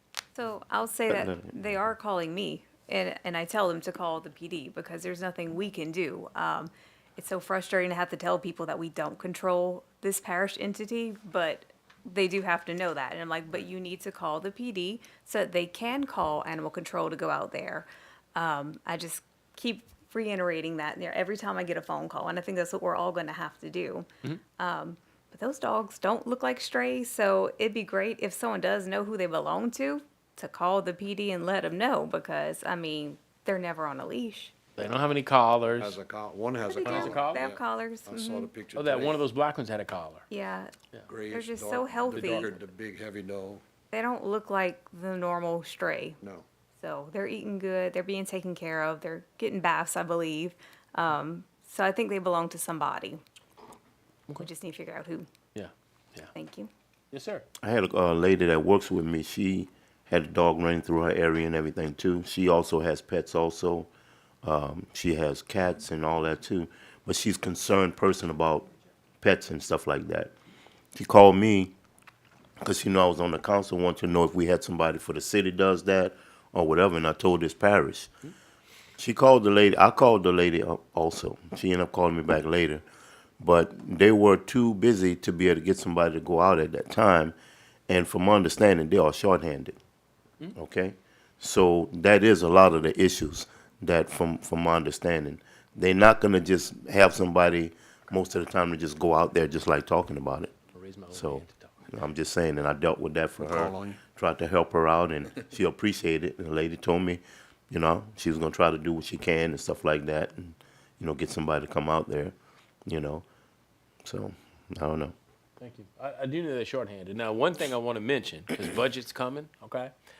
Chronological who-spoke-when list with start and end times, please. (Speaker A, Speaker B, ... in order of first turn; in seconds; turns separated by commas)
Speaker A: 0.3-34.6, Speaker B: 1.1-1.5, Speaker C: 34.8-36.0, Speaker D: 35.7-39.2, Speaker A: 36.7-38.5, Speaker C: 36.8-37.4, Speaker C: 38.8-40.2, Speaker A: 40.3-40.7, Speaker D: 41.1-43.6, Speaker A: 41.3-42.6, Speaker C: 42.1-42.5, Speaker A: 43.9-46.2, Speaker D: 46.2-46.5, Speaker A: 46.8-53.2, Speaker A: 54.4-55.3, Speaker C: 55.5-56.3, Speaker A: 56.3-56.7, Speaker C: 57.1-57.4, Speaker B: 57.6-63.9, Speaker B: 64.4-68.7, Speaker B: 69.2-70.3, Speaker B: 70.9-71.7, Speaker B: 72.6-78.1, Speaker B: 79.0-82.8, Speaker B: 83.4-87.3, Speaker B: 87.9-89.8, Speaker B: 90.5-100.5, Speaker C: 100.7-101.7, Speaker B: 101.1-112.3, Speaker D: 103.4-104.0, Speaker B: 112.9-113.2, Speaker B: 114.0-115.1, Speaker C: 115.6-119.9